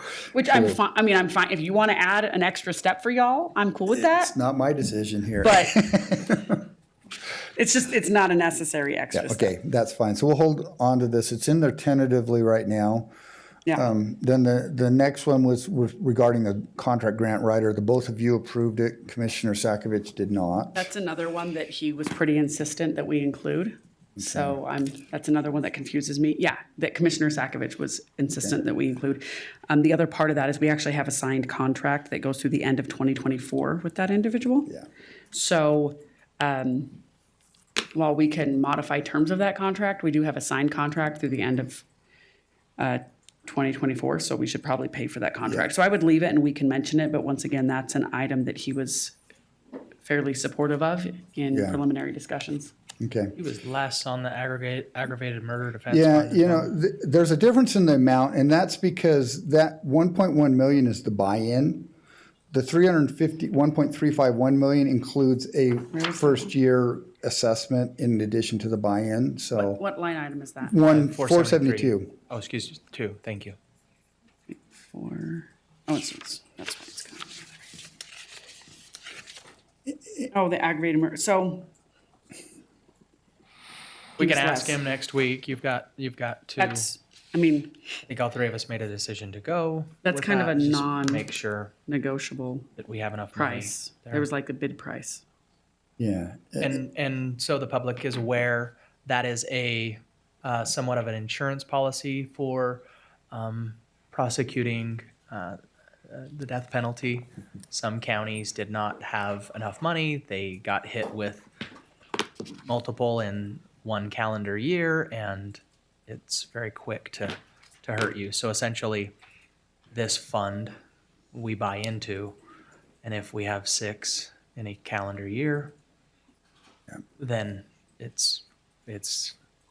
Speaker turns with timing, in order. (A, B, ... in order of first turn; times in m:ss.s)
0:00.3-0:04.3 A
0:04.0-0:06.6 B
0:05.4-0:05.8 A
0:07.5-0:09.5 A
0:09.1-0:13.1 B
0:13.7-0:20.9 B
0:20.7-0:34.7 A
0:35.3-0:37.0 A
0:37.9-0:41.8 A
0:42.8-0:49.2 A
0:50.0-0:52.7 A
0:51.5-0:51.8 B
0:53.0-0:53.3 B
0:53.4-0:56.7 C
0:55.9-1:01.9 B
1:02.5-1:09.8 B
1:05.9-1:06.5 A
1:09.6-1:10.8 A
1:10.6-1:12.1 B
1:10.8-1:13.6 C
1:14.5-1:17.5 A
1:20.3-1:21.7 A
1:24.2-1:24.8 A
1:24.2-1:26.9 C
1:26.6-1:27.8 A
1:28.1-1:31.7 C
1:30.0-1:31.3 A
1:31.9-1:32.7 A
1:32.8-1:34.2 C
1:33.4-1:35.2 A
1:36.0-1:36.8 B
1:36.6-1:51.5 C
1:52.6-1:59.1 C
1:59.9-2:00.7 C
2:01.3-2:02.4 C
2:03.0-2:05.7 C
2:07.2-2:09.4 C